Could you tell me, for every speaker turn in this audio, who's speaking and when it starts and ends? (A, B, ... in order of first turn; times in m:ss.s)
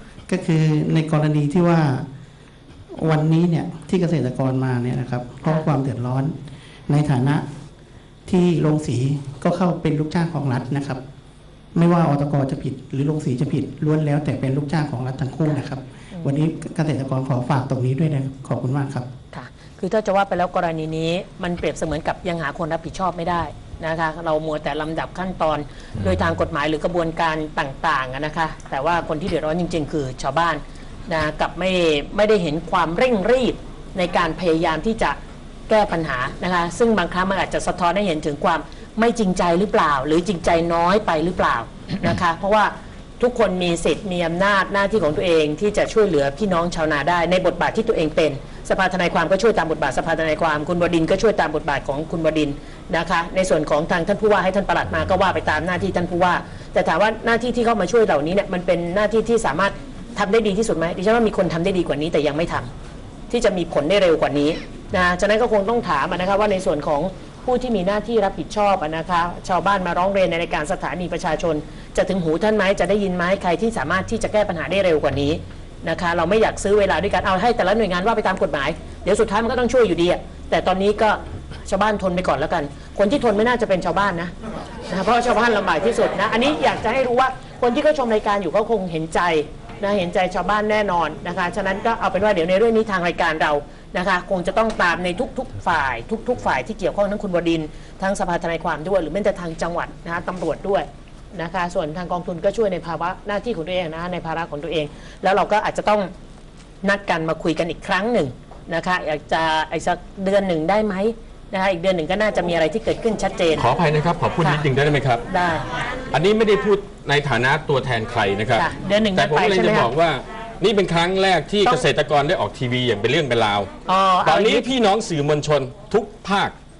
0:00.3-0:02.0 A
0:02.9-0:07.4 A
0:08.2-0:11.0 A
0:11.7-0:19.1 A
0:16.1-0:16.4 B
0:19.3-1:02.7 B
1:03.3-1:24.3 B
1:24.9-1:46.1 B
1:46.8-1:53.7 B
1:53.6-1:55.2 C
1:55.3-1:55.7 B
1:56.1-2:03.7 C
1:58.5-1:59.9 B
2:03.8-2:04.6 B
2:04.2-2:06.5 C